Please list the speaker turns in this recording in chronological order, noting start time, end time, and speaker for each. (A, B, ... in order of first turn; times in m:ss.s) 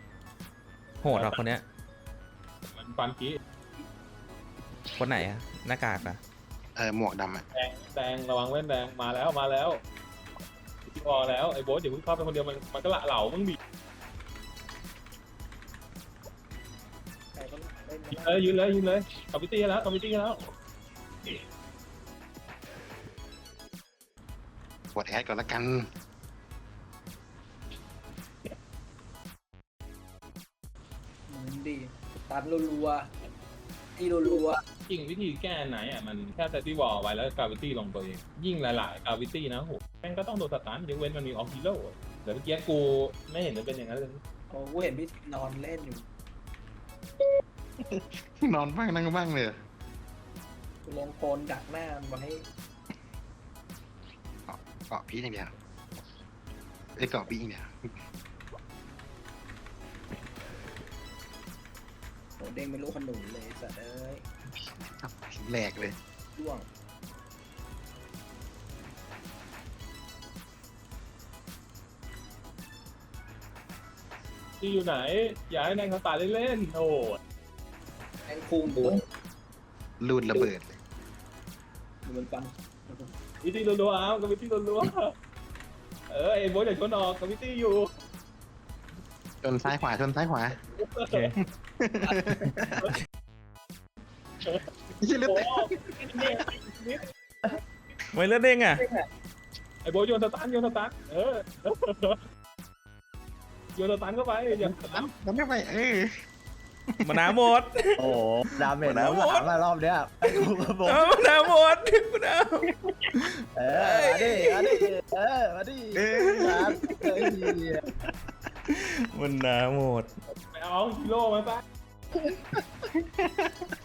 0:01.0-0:01.6 A
0:01.1-0:01.4 B
0:02.7-0:03.4 B
0:05.0-0:06.2 A
0:06.8-0:07.4 C
0:07.5-0:09.8 B
0:10.9-0:13.6 B
0:17.3-0:18.5 D
0:18.1-0:20.5 B
0:24.9-0:25.8 C
0:31.3-0:33.1 D
0:34.0-0:34.6 D
0:34.9-0:44.2 B
0:44.5-0:46.0 D
0:47.8-0:49.6 C
0:50.8-0:52.4 D
0:54.5-0:55.5 C
0:57.0-0:57.7 C
1:02.4-1:04.2 D
1:04.6-1:06.0 C
1:06.3-1:06.7 D
1:14.6-1:17.2 B
1:18.3-1:19.0 D
1:20.0-1:20.8 C
1:22.0-1:23.1 D
1:23.4-1:25.1 B
1:26.1-1:27.9 B
1:29.4-1:30.6 C
1:30.8-1:31.3 B
1:31.8-1:32.8 C
1:35.0-1:36.4 C
1:35.2-1:37.0 B
1:38.1-1:38.9 A
1:39.8-1:42.2 B
1:43.8-1:45.1 B
1:44.8-1:46.1 C
1:47.0-1:47.3 C
1:47.0-1:48.1 A
1:48.0-1:51.5 E
1:48.8-1:49.5 A
1:50.3-1:54.9 A
1:53.6-1:57.8 E
1:56.0-1:57.5 A
1:58.7-2:00.1 A
2:00.5-2:01.6 B